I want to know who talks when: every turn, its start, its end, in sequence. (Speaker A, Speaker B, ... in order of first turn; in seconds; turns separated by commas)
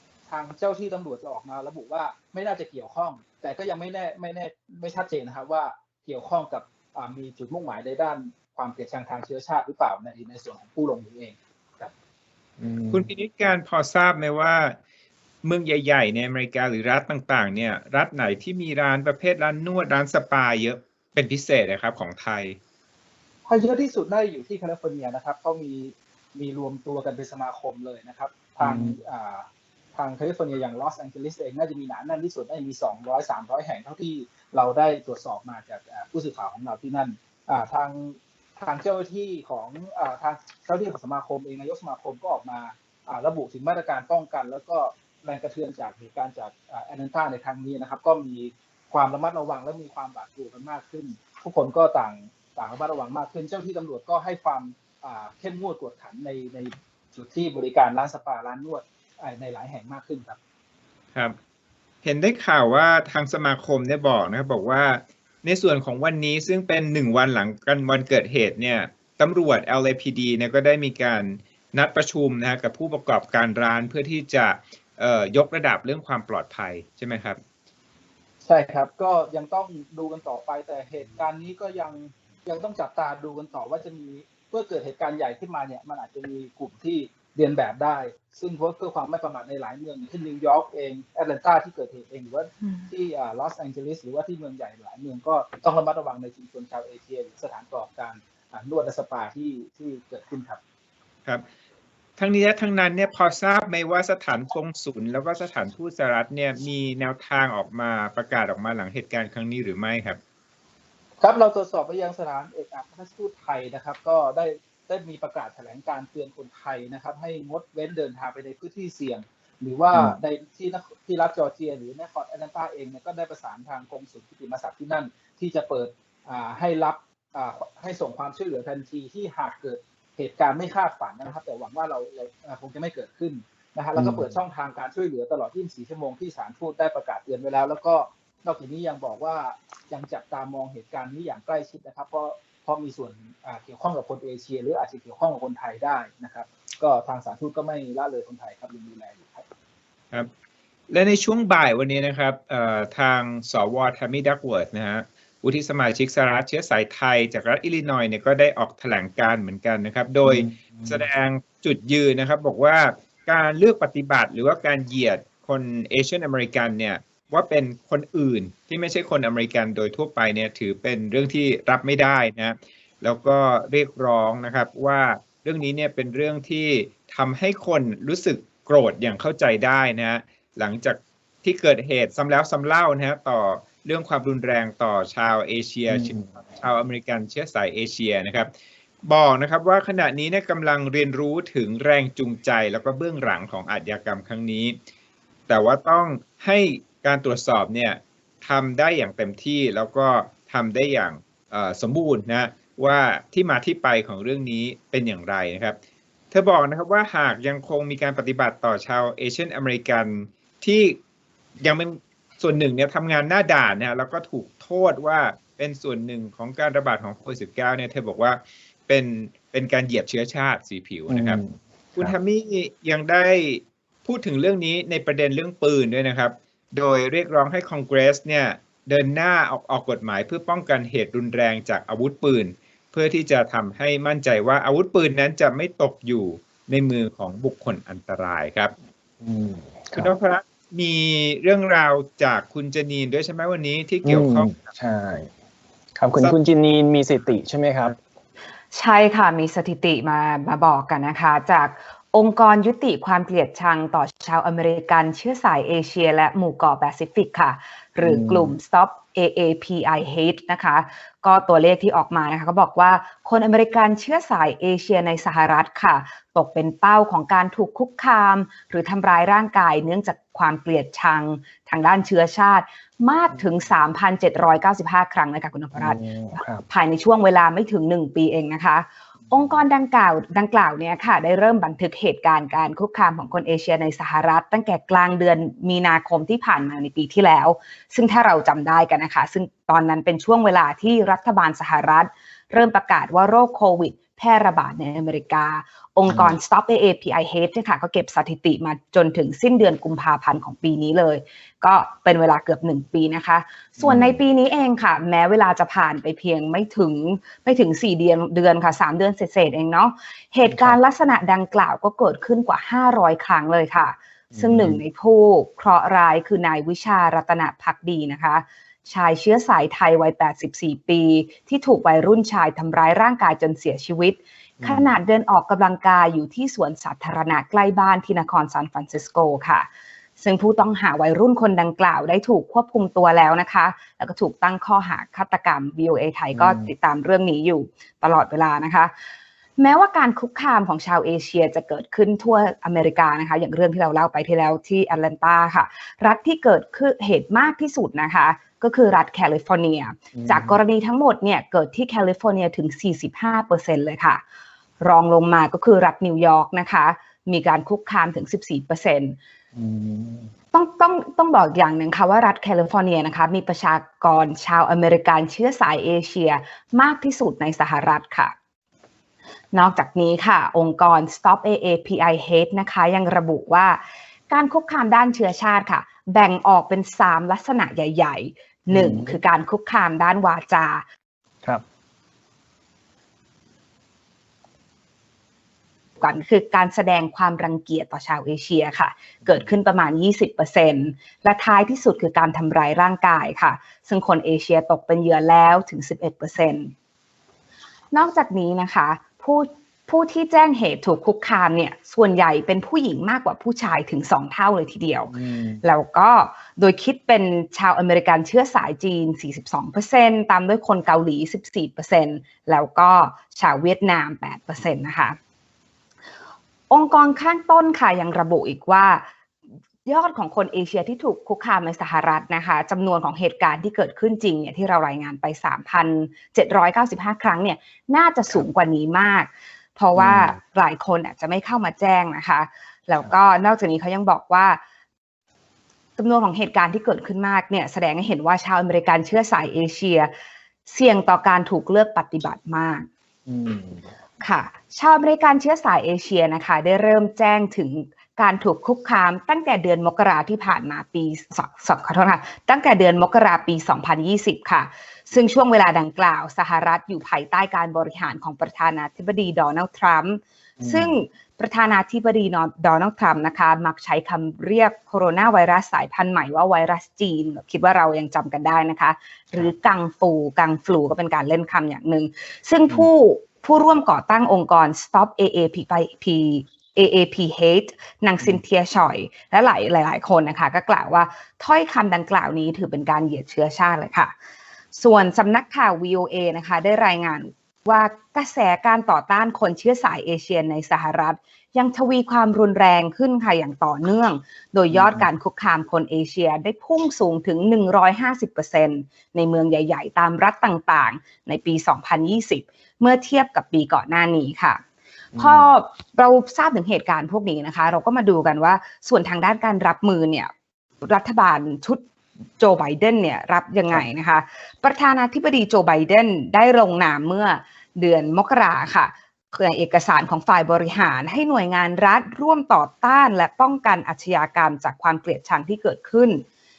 Speaker A: 0.3-11.9, Speaker B: 12.6-13.1, Speaker C: 12.9-14.8, Speaker C: 15.4-22.6, Speaker A: 23.5-60.4, Speaker B: 28.6-28.9, Speaker C: 62.0-77.4, Speaker A: 78.4-100.6, Speaker C: 102.2-110.2, Speaker A: 111.2-149.5, Speaker B: 133.9-134.3, Speaker C: 150.9-188.5, Speaker B: 160.2-161.1, Speaker B: 185.9-186.6, Speaker C: 189.0-194.8, Speaker C: 195.5-205.8, Speaker C: 206.3-211.0, Speaker C: 211.6-221.4, Speaker B: 221.1-222.1, Speaker C: 221.9-238.7, Speaker B: 239.2-240.1, Speaker C: 239.9-244.7, Speaker B: 244.0-245.3, Speaker B: 246.0-248.0, Speaker D: 248.7-329.7, Speaker B: 258.0-258.6, Speaker B: 275.8-276.6, Speaker B: 296.1-296.4, Speaker B: 303.8-304.2, Speaker B: 310.4-310.8, Speaker B: 314.3-314.8, Speaker B: 324.6-324.9, Speaker D: 330.2-338.9, Speaker B: 336.3-336.7, Speaker D: 339.6-354.2, Speaker B: 350.1-350.6, Speaker D: 354.8-359.2, Speaker B: 359.6-360.3, Speaker D: 360.5-368.3, Speaker D: 369.5-380.8, Speaker B: 378.7-379.2, Speaker D: 386.0-396.7, Speaker D: 397.9-415.2, Speaker B: 405.1-405.6, Speaker D: 416.7-419.1, Speaker D: 419.9-434.6, Speaker B: 429.9-430.4, Speaker D: 436.0-440.1, Speaker D: 440.6-442.9, Speaker B: 443.3-443.9, Speaker D: 444.2-484.1, Speaker B: 460.6-460.9, Speaker D: 484.7-504.6, Speaker B: 494.7-495.1, Speaker B: 505.1-505.5, Speaker D: 505.1-510.3, Speaker D: 510.8-511.8, Speaker D: 512.4-526.2